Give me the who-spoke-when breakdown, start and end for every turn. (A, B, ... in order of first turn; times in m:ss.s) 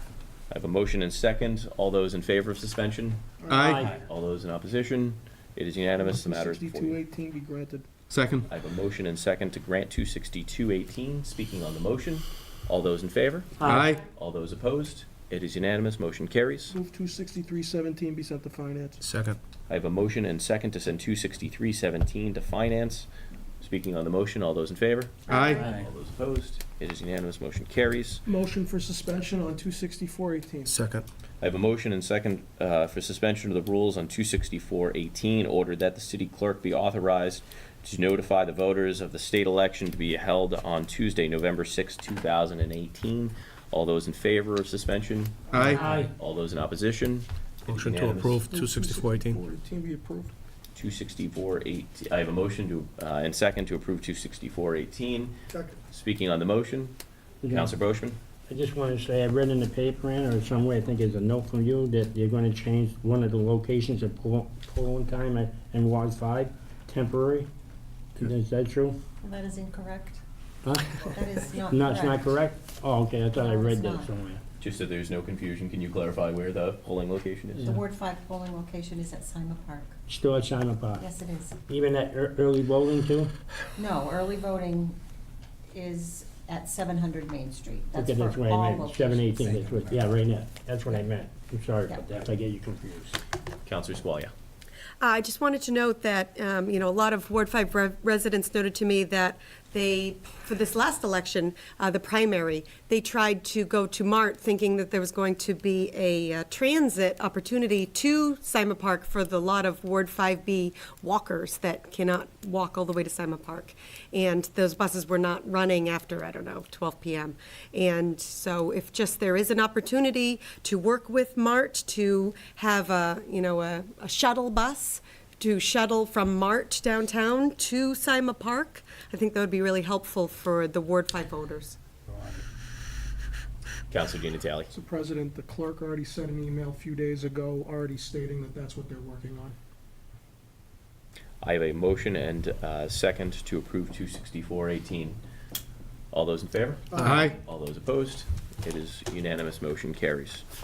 0:00.5-0:03.2 A
0:03.4-0:03.8 B
0:03.5-0:03.9 C
0:03.5-0:03.9 D
0:03.9-0:07.0 A
0:06.0-0:07.9 B
0:08.1-0:08.5 C
0:08.5-0:16.8 A
0:13.6-0:13.9 D
0:13.6-0:14.1 C
0:16.7-0:19.0 B
0:19.0-0:19.4 E
0:19.7-0:23.1 A
0:23.6-0:28.2 A
0:25.3-0:25.7 C
0:28.2-0:30.8 B
0:30.7-0:31.0 E
0:31.4-0:48.4 A
0:45.5-0:45.8 C
0:45.8-0:46.1 D
0:47.7-0:49.4 E
0:48.5-0:50.3 B
0:50.8-0:55.4 A
0:55.5-0:55.8 B
0:55.9-0:57.0 A
0:57.4-0:57.7 D
0:57.5-0:58.2 A
0:58.5-1:07.5 D
1:08.2-1:09.0 D
1:09.2-1:10.2 F
1:10.6-1:14.4 D
1:11.1-1:12.3 F
1:13.3-1:14.1 F
1:14.6-1:17.8 A
1:17.6-1:19.9 F
1:20.1-1:21.1 D
1:21.0-1:21.6 F
1:21.7-1:23.3 D
1:23.8-1:25.0 F
1:25.7-1:29.5 F
1:28.0-1:33.2 D
1:33.7-1:34.3 A
1:35.0-2:11.8 G
2:13.9-2:14.7 A
2:14.7-2:19.6 B
2:21.4-2:25.2 A
2:26.1-2:30.4 A
2:26.9-2:27.3 B
2:27.0-2:27.4 C